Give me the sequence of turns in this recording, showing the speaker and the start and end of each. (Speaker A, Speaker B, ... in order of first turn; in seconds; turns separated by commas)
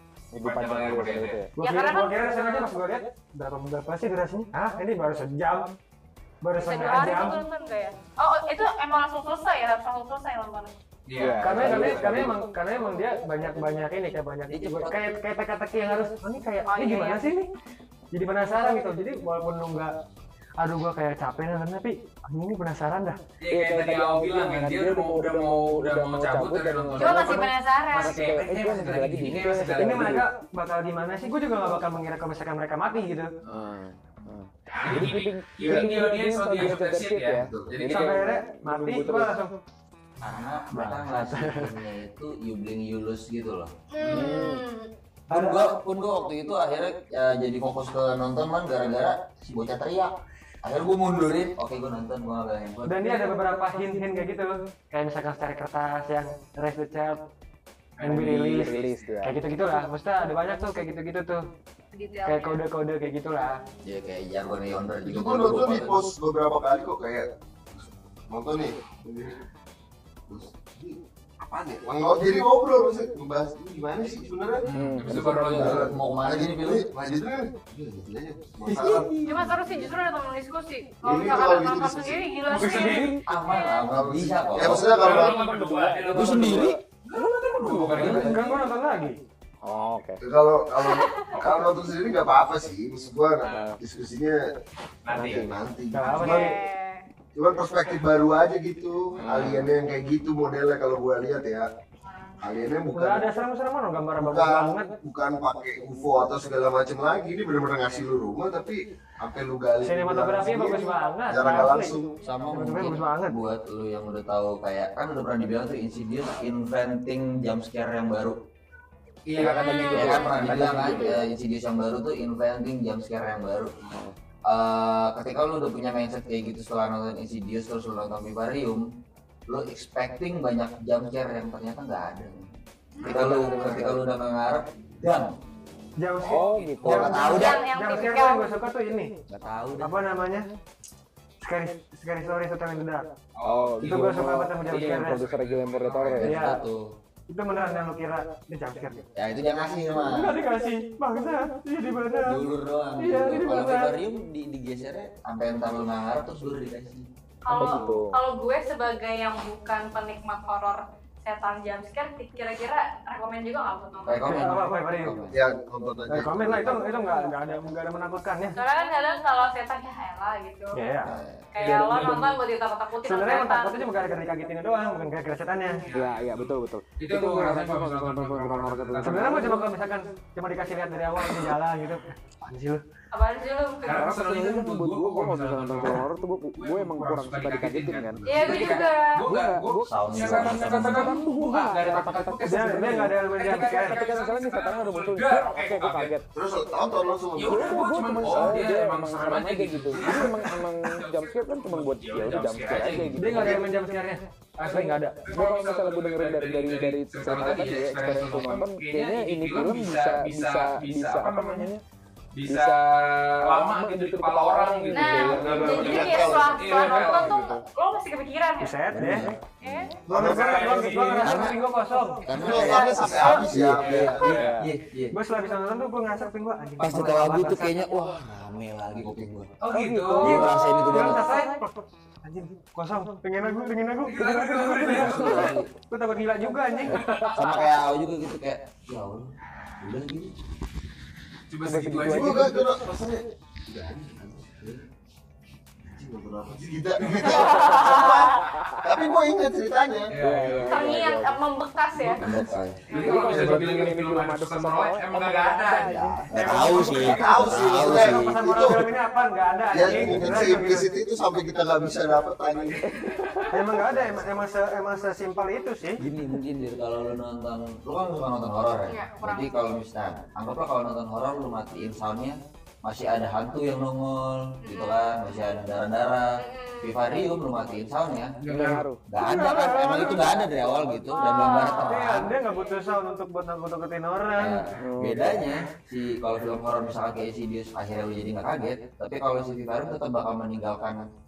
Speaker A: 0.3-1.5, Speaker B: 0.4-1.4, Speaker C: 1.6-5.8, Speaker D: 1.6-2.7, Speaker C: 6.4-7.4, Speaker D: 6.6-10.8, Speaker B: 11.1-12.2, Speaker A: 11.2-12.4, Speaker C: 11.4-17.5, Speaker E: 14.5-14.9, Speaker D: 16.7-17.3, Speaker C: 18.1-20.0, Speaker C: 20.6-23.2, Speaker B: 23.4-30.2, Speaker A: 23.5-30.3, Speaker D: 27.0-28.2, Speaker C: 29.8-33.3, Speaker A: 33.5-39.4, Speaker B: 34.8-38.2, Speaker F: 37.4-37.7, Speaker C: 37.8-39.6, Speaker E: 40.2-43.7, Speaker C: 40.9-41.7, Speaker D: 43.9-44.9, Speaker A: 44.0-44.6, Speaker E: 45.3-53.1, Speaker C: 45.3-45.8, Speaker C: 52.9-57.3, Speaker C: 58.0-61.5, Speaker A: 58.0-59.4, Speaker D: 61.9-62.6, Speaker C: 62.2-63.6, Speaker E: 63.8-66.1, Speaker F: 65.0-69.4, Speaker F: 70.3-79.9, Speaker B: 74.7-75.9, Speaker A: 74.7-75.5, Speaker E: 75.5-76.9, Speaker C: 78.7-79.1, Speaker A: 78.9-79.5, Speaker D: 79.2-83.8, Speaker F: 81.0-82.2, Speaker C: 82.5-82.9, Speaker B: 82.5-83.1, Speaker A: 82.6-83.2, Speaker E: 83.2-84.9, Speaker F: 83.9-85.4, Speaker A: 84.2-86.8, Speaker B: 84.8-88.7, Speaker E: 86.1-86.8, Speaker A: 87.6-88.3, Speaker C: 87.9-89.2, Speaker A: 89.6-90.2, Speaker F: 90.2-94.5, Speaker D: 90.8-91.3, Speaker B: 95.0-95.5, Speaker A: 95.2-95.4, Speaker F: 95.2-96.5, Speaker C: 95.9-96.6, Speaker D: 96.0-97.1, Speaker F: 97.3-101.7, Speaker B: 99.2-99.7, Speaker D: 102.0-102.4, Speaker F: 102.4-103.3, Speaker C: 102.9-104.9, Speaker F: 104.2-112.2, Speaker C: 109.8-112.0, Speaker E: 112.2-118.4, Speaker C: 112.5-113.4, Speaker B: 119.3-120.8, Speaker A: 119.4-121.2, Speaker D: 119.4-121.2, Speaker E: 119.9-123.8, Speaker E: 124.5-128.8, Speaker E: 129.5-132.5, Speaker E: 133.0-135.3, Speaker A: 133.1-134.0, Speaker C: 136.0-139.2, Speaker A: 136.2-137.4, Speaker E: 136.8-137.6, Speaker D: 137.2-138.5, Speaker E: 139.3-140.0, Speaker C: 139.8-140.5, Speaker C: 141.4-143.1, Speaker B: 143.4-146.3, Speaker A: 143.4-146.3, Speaker C: 143.8-145.2, Speaker E: 146.2-146.9, Speaker C: 146.2-146.6, Speaker C: 147.3-149.1, Speaker E: 149.2-150.4, Speaker C: 150.0-152.4, Speaker E: 152.2-157.1, Speaker C: 153.0-153.9, Speaker D: 157.4-164.4, Speaker A: 157.5-158.2, Speaker F: 157.6-157.9, Speaker E: 164.0-165.4, Speaker C: 164.2-165.2, Speaker F: 165.3-166.9, Speaker C: 166.1-168.6, Speaker D: 168.6-170.8, Speaker C: 170.7-171.2, Speaker E: 171.0-171.5, Speaker D: 171.5-173.9, Speaker A: 171.6-172.4, Speaker C: 173.0-175.9, Speaker B: 175.9-179.6, Speaker A: 175.9-179.7, Speaker C: 179.0-182.8, Speaker D: 183.1-184.1, Speaker B: 183.8-196.2, Speaker A: 183.9-196.3, Speaker D: 188.2-189.3, Speaker E: 189.9-191.2, Speaker C: 192.4-194.0, Speaker F: 196.3-198.6, Speaker B: 197.4-203.6, Speaker A: 197.4-203.7, Speaker C: 203.2-205.2, Speaker A: 204.7-211.8, Speaker B: 205.2-211.7, Speaker B: 212.3-217.5, Speaker A: 212.4-212.8, Speaker A: 213.4-217.6, Speaker D: 214.9-218.9, Speaker F: 215.5-216.8, Speaker C: 218.6-219.3, Speaker E: 218.9-219.9, Speaker D: 219.6-220.0, Speaker F: 220.1-220.9, Speaker C: 220.1-222.4, Speaker B: 220.1-221.4, Speaker E: 221.2-221.6, Speaker E: 222.2-225.2, Speaker F: 222.3-224.3, Speaker D: 222.4-224.4, Speaker B: 223.6-224.6, Speaker A: 224.2-224.7, Speaker C: 225.1-227.8, Speaker E: 226.8-229.6, Speaker B: 229.6-230.6, Speaker C: 229.6-231.7, Speaker E: 230.2-231.4, Speaker C: 232.2-237.1, Speaker B: 234.0-235.6, Speaker A: 234.3-235.5, Speaker E: 234.9-235.7, Speaker A: 236.9-237.5, Speaker B: 237.0-237.6, Speaker E: 237.3-240.4, Speaker B: 241.5-242.5, Speaker A: 241.6-242.7, Speaker F: 242.1-244.7, Speaker E: 244.6-244.8, Speaker F: 245.9-250.1, Speaker D: 247.3-248.4, Speaker B: 250.1-251.2, Speaker A: 250.1-251.4, Speaker D: 250.6-252.3, Speaker E: 252.1-252.9, Speaker D: 252.9-253.6, Speaker B: 252.9-256.0, Speaker A: 252.9-257.2, Speaker E: 255.9-258.4, Speaker C: 256.3-260.9, Speaker F: 256.4-258.9, Speaker F: 259.7-262.9, Speaker E: 259.9-260.6, Speaker A: 263.0-263.5, Speaker C: 263.5-266.0, Speaker E: 263.9-264.3, Speaker E: 266.0-278.5, Speaker D: 268.9-269.6, Speaker D: 274.6-275.2, Speaker D: 276.4-277.0, Speaker A: 278.4-279.0, Speaker E: 279.1-282.3, Speaker C: 279.2-280.3, Speaker D: 281.1-282.0, Speaker C: 281.7-284.6, Speaker E: 284.4-291.1, Speaker A: 284.8-285.6